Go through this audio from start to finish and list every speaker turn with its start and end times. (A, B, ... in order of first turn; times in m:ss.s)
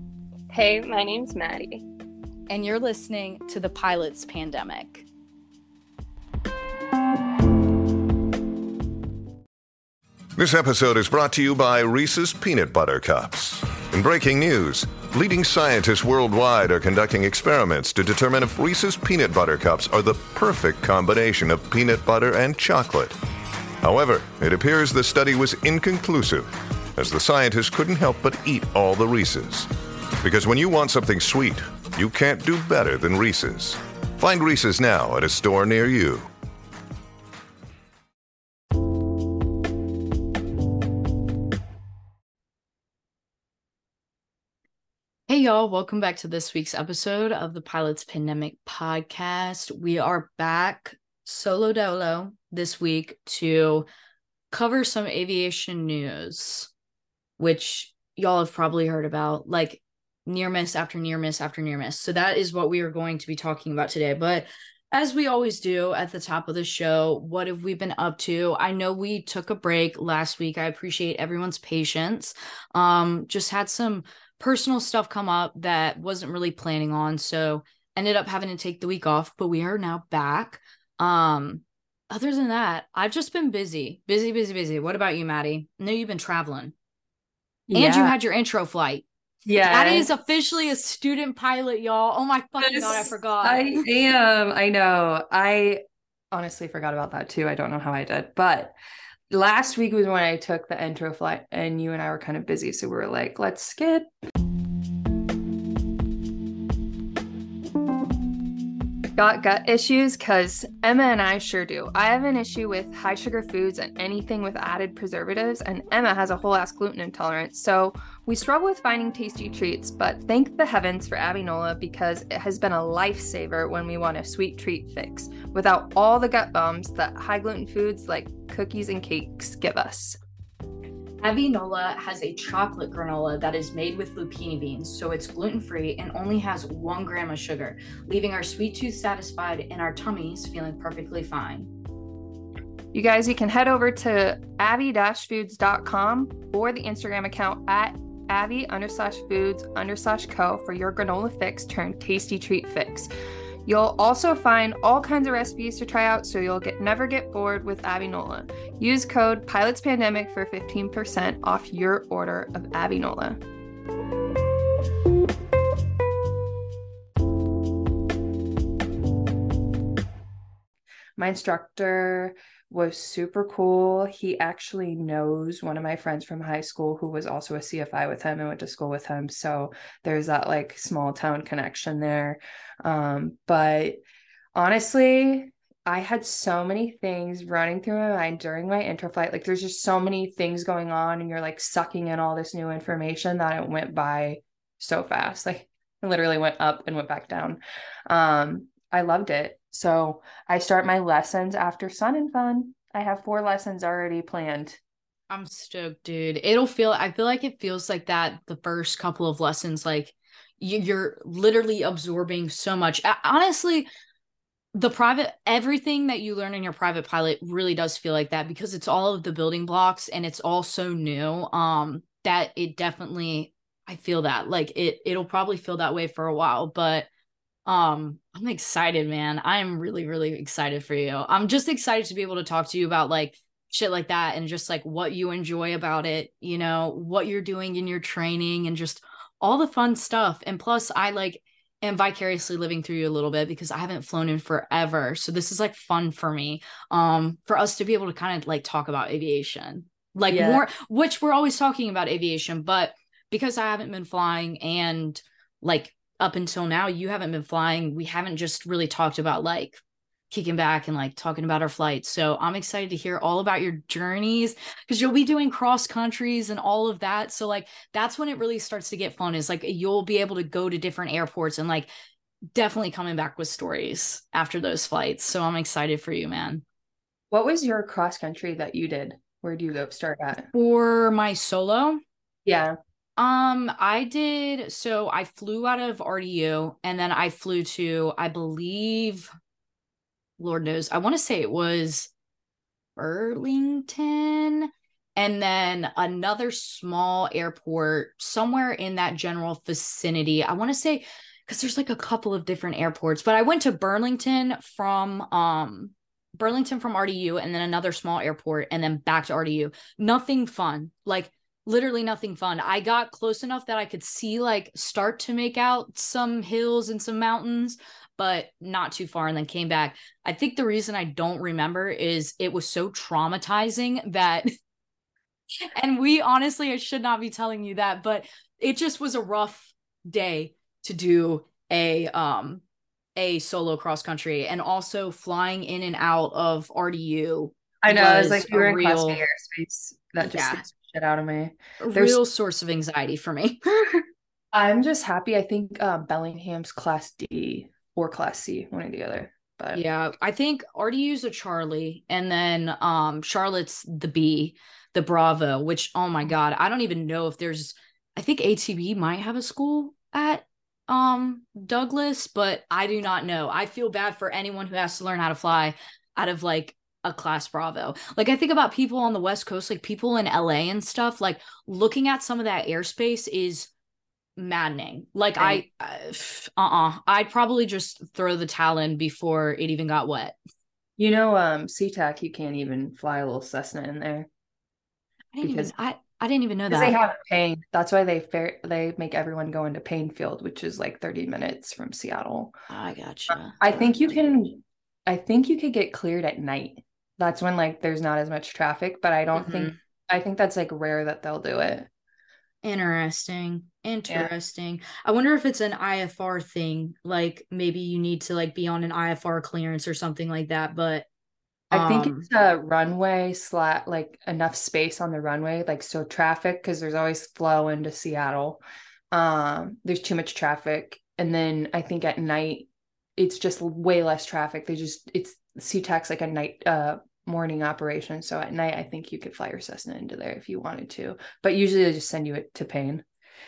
0:00.5-0:01.8 A
0:02.5-0:05.1 B
0:10.4-0:23.2 C
0:23.8-0:36.3 C
0:45.3-0:53.9 B
0:54.5-0:56.7 B
0:57.4-1:26.7 B
1:27.7-1:28.2 A
1:27.7-1:29.1 B
1:29.5-1:30.1 A
1:29.6-1:33.8 B
1:32.6-1:35.8 A
1:36.3-1:38.8 A
1:39.3-1:44.1 A
1:49.2-2:10.2 A
2:11.2-2:21.7 B
2:22.9-2:33.1 A
2:33.7-2:43.4 A
2:51.2-3:04.0 A
3:04.6-3:24.8 A
3:25.3-3:33.9 B
3:34.7-3:47.1 B
3:47.7-4:31.9 B
4:10.3-4:10.7 A
4:32.6-4:36.6 B
4:37.3-4:40.5 A
4:40.5-4:42.0 B
4:42.4-4:42.8 A
4:43.2-4:49.3 B
4:50.4-4:52.1 B
4:53.0-5:24.5 B
5:25.7-5:32.6 B
5:33.2-5:39.2 B
5:37.8-5:42.2 A
5:40.2-5:40.6 B
5:41.8-5:44.0 B
5:44.5-5:49.8 A
5:49.7-6:13.7 B
6:14.4-6:20.4 B
6:15.4-6:15.6 A
6:21.0-6:24.3 A
6:25.3-6:27.0 B
6:25.4-6:25.7 A
6:26.7-6:32.6 A
6:32.7-6:33.9 B
6:33.3-6:41.9 A
6:39.3-6:39.8 B
6:42.6-6:51.1 B
6:51.7-6:52.3 B
6:51.7-6:58.6 A
6:59.1-7:13.0 A